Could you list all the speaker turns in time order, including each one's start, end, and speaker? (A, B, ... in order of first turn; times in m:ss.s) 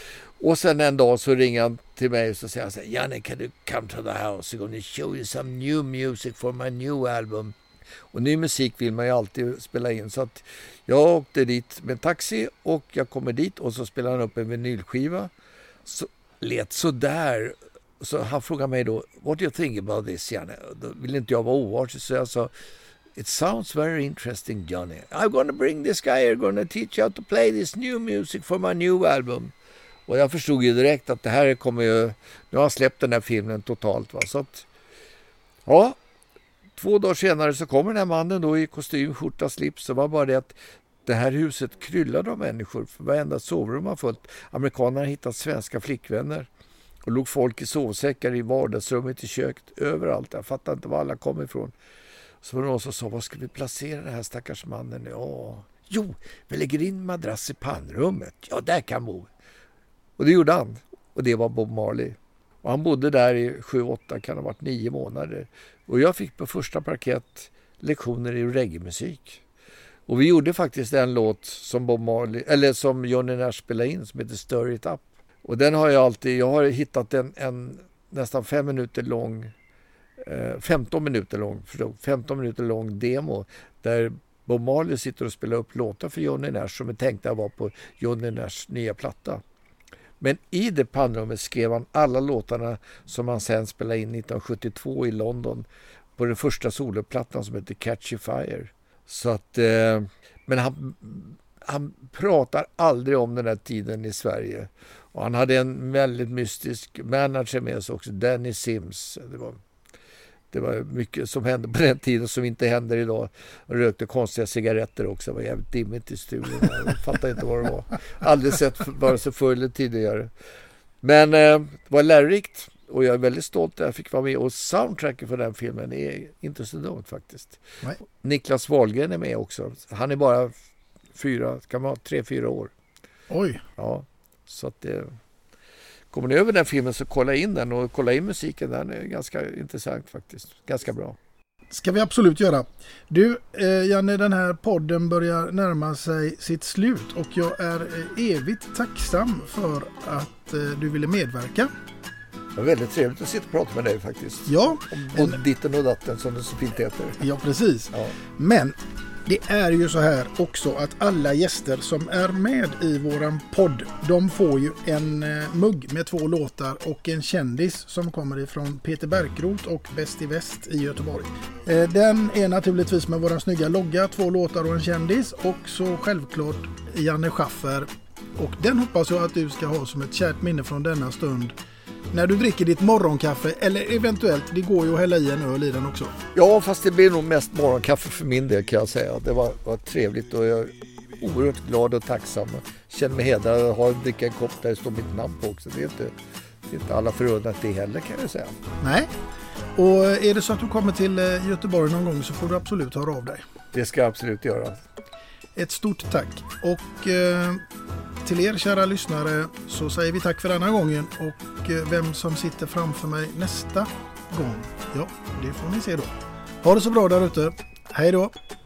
0:00.4-0:07.6 A
0:08.1-0:15.3 A
0:15.9-0:22.5 A
0:23.2-0:29.5 A
0:30.1-0:34.7 A
0:35.7-0:36.0 A
0:36.8-0:40.6 A
0:41.1-0:46.5 A
0:47.0-0:51.7 A
0:52.4-0:59.3 A
1:00.2-1:09.4 A
1:10.1-1:19.5 A
1:20.2-1:29.4 A
1:30.2-1:49.6 A
1:50.5-2:00.3 A
2:01.0-2:10.5 A
2:11.2-2:12.7 A
2:13.3-2:13.6 B
2:13.8-2:15.2 A
2:16.1-2:21.2 A
2:21.7-2:31.7 B
2:32.6-2:37.2 A
2:34.5-2:35.4 B
2:37.2-3:01.6 B
3:02.1-3:06.2 B
3:06.3-3:16.2 A
3:16.7-3:18.6 A
3:18.8-3:19.1 B
3:19.8-3:23.4 B
3:23.7-3:24.8 A
3:25.6-3:27.6 B
3:28.2-3:38.3 B